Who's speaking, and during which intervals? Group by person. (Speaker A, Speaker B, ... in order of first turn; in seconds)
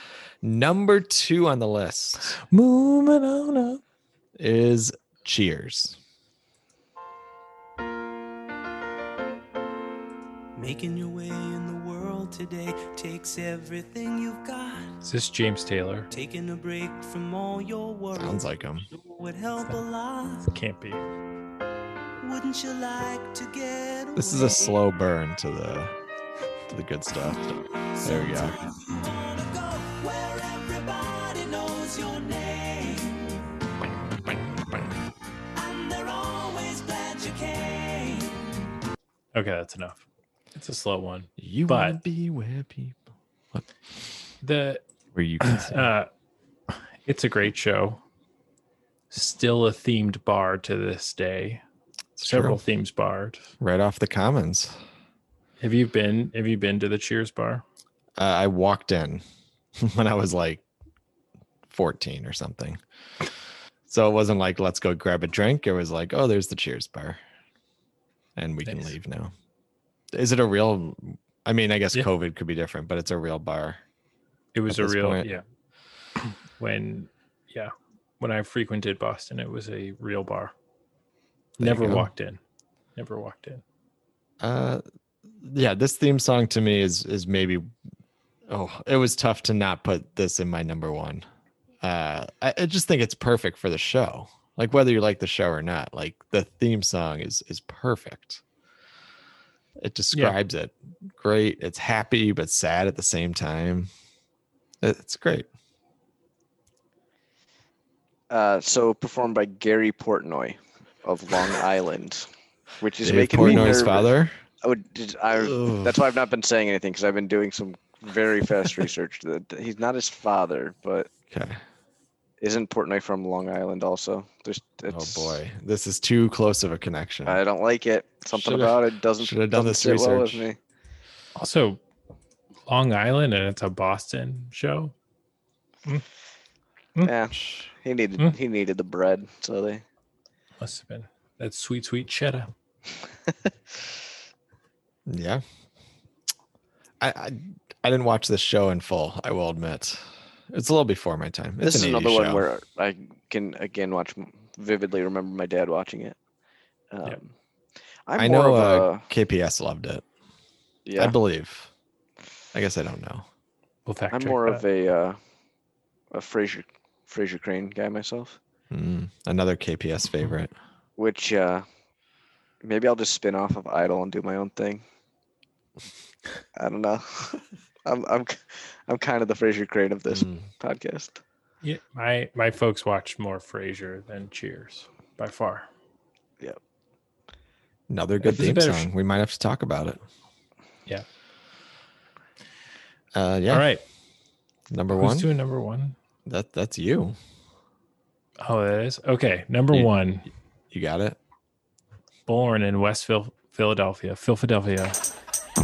Speaker A: 0.4-2.4, 4.4-6.0, 18.1-18.9, 24.2-25.9, 26.7-28.6, 41.4-43.0, 45.1-45.9, 52.2-52.6, 53.6-54.8, 58.2-59.2, 59.8-60.6, 61.7-62.8, 63.9-67.2, 68.4-69.3, 70.1-73.8, 74.7-75.4, 81.6-82.1, 84.4-84.8, 85.4-87.7, 88.5-91.2, 91.8-98.4, 99.8-103.9, 104.8-105.5, 113.0-114.4, 115.5-116.0, 121.3-121.6, 124.9-127.4, 128.3-130.5, 137.3-137.7, 145.1-145.4, 147.0-152.5, 158.2-160.0, 161.0-161.7, 162.5-163.3, 168.7-170.5, 180.1-180.5, 187.9-190.0, 193.1-193.7, 194.7-195.3, 196.3-197.2, 200.7-201.2
Speaker B: 2.4-3.8, 15.0-16.1, 20.4-21.1, 39.3-40.0, 40.5-42.0, 44.4-44.8, 45.4-46.1, 46.7-48.0, 49.1-51.6, 52.2-53.5, 55.6-57.6, 68.7-69.0, 74.5-75.4, 76.2-80.5, 81.6-82.4, 83.0-83.6, 131.3-131.8, 132.7-134.9, 140.6-142.5, 163.9-164.6, 181.6-185.7, 188.2-188.9, 193.5-193.8, 194.9-196.0, 198.4-200.3, 202.3-205.0
Speaker C: 10.6-15.0, 16.1-20.5, 22.2-24.8, 27.8-33.4, 35.5-38.6
Speaker D: 108.3-112.3, 112.8-114.1, 114.6-121.1, 122.4-125.4, 127.3-130.6, 137.0-139.8, 151.6-156.2, 156.9-157.3, 158.1-159.1, 160.8-161.2, 164.1-165.2, 166.1-168.4, 171.0-171.7, 172.6-174.8, 176.6-181.2